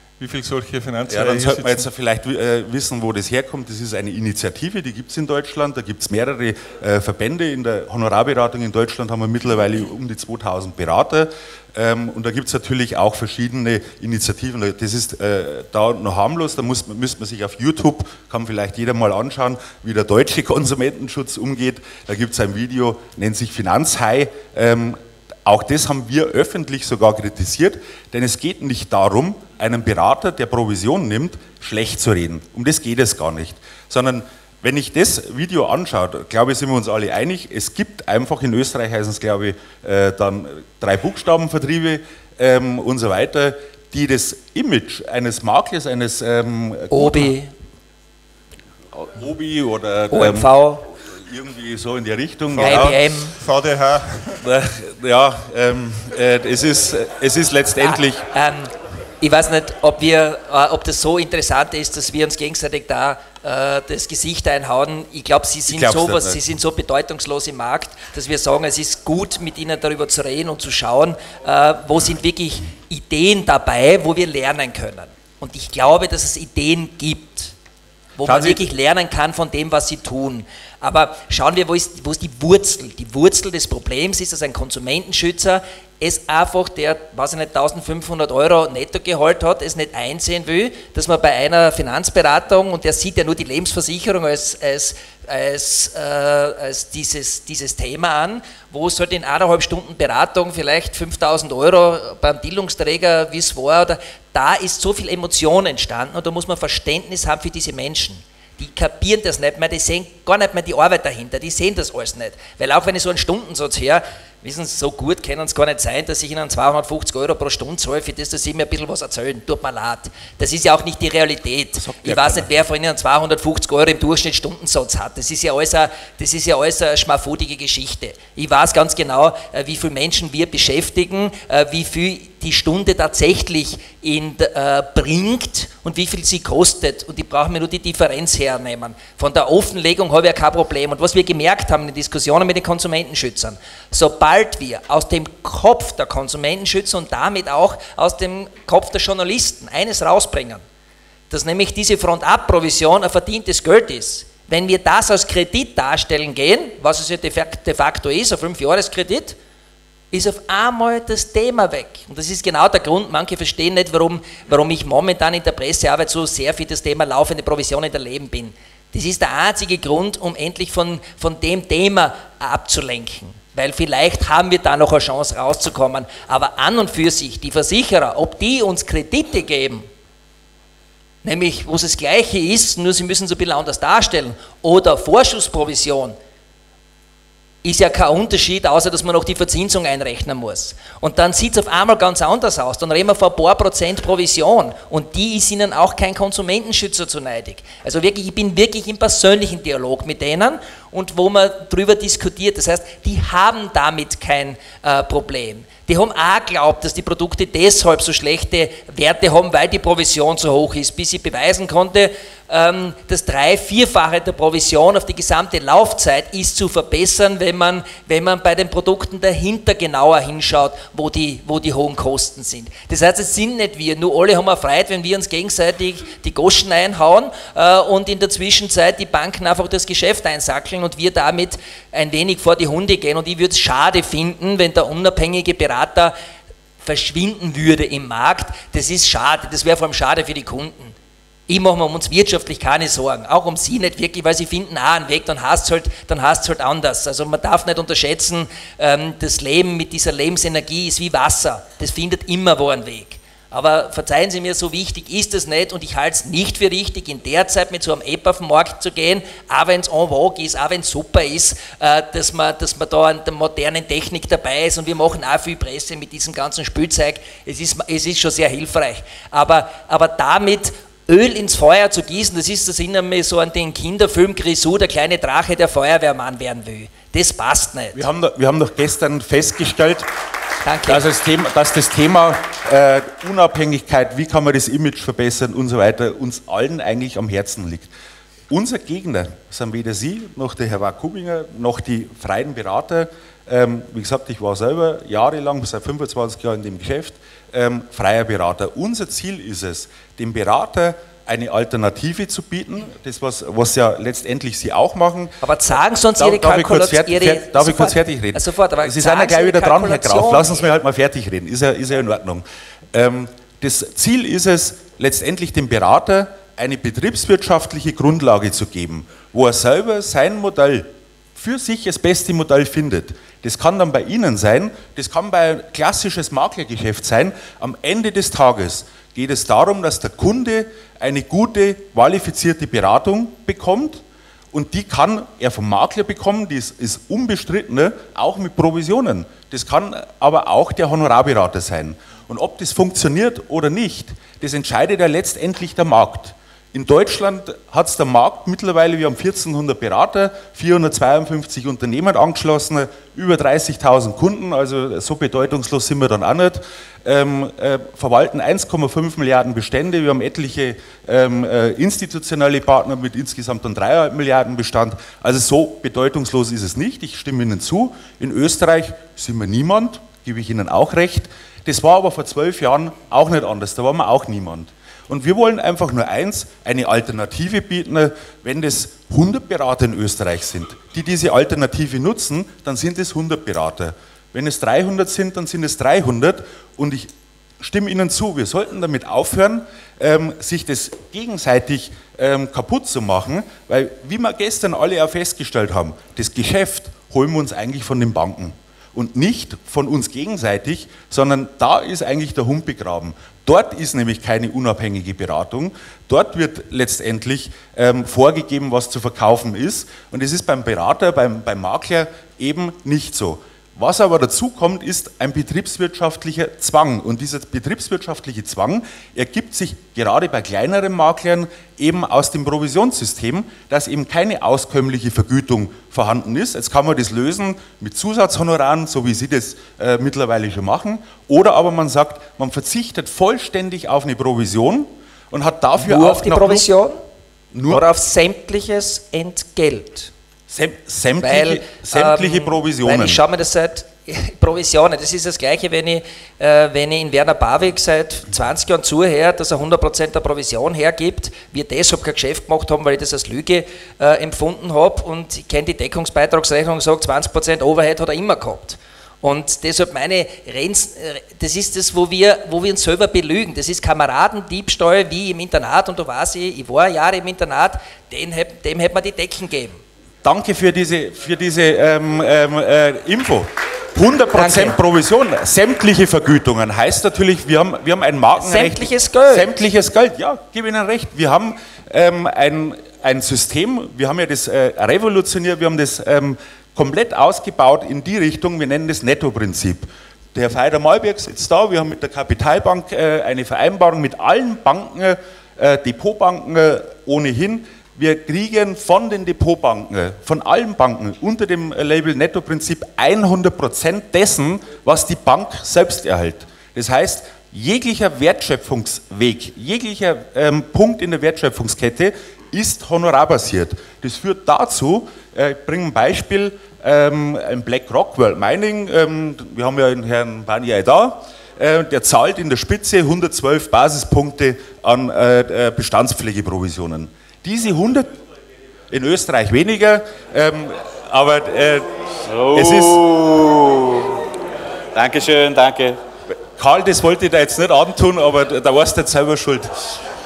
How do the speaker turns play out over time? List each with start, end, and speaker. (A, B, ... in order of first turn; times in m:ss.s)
0:00.2-0:01.8 A
0:01.1-0:47.3 B
0:46.9-0:47.5 C
0:49.0-0:53.0 B
0:50.1-0:50.9 C
0:52.5-0:54.4 A
0:52.6-0:53.4 C
0:54.4-0:58.2 B
0:57.8-1:17.5 C
1:05.7-1:06.4 B
1:18.2-2:30.6 C
1:18.2-1:18.6 B
2:01.8-2:02.5 B
2:31.3-2:39.4 C
2:40.1-2:59.9 C
3:01.2-3:06.2 C
3:07.6-3:56.1 C
3:56.8-4:01.0 C
4:01.5-4:38.0 C
4:37.9-4:40.1 B
4:40.6-4:41.0 C
4:40.9-4:47.9 B
4:48.5-5:05.4 B
5:05.4-5:10.6 C
5:06.2-7:16.7 B
7:15.8-7:17.0 C
7:17.5-7:17.8 B
7:17.7-7:20.1 C
7:20.5-7:23.2 B
7:21.2-7:49.8 C
7:50.2-8:48.2 B
7:54.3-7:54.8 C
7:58.4-7:59.5 C
8:48.9-8:51.9 B
8:52.3-8:54.2 D
8:52.5-8:53.0 B
8:54.9-8:56.0 D
8:56.6-9:00.0 B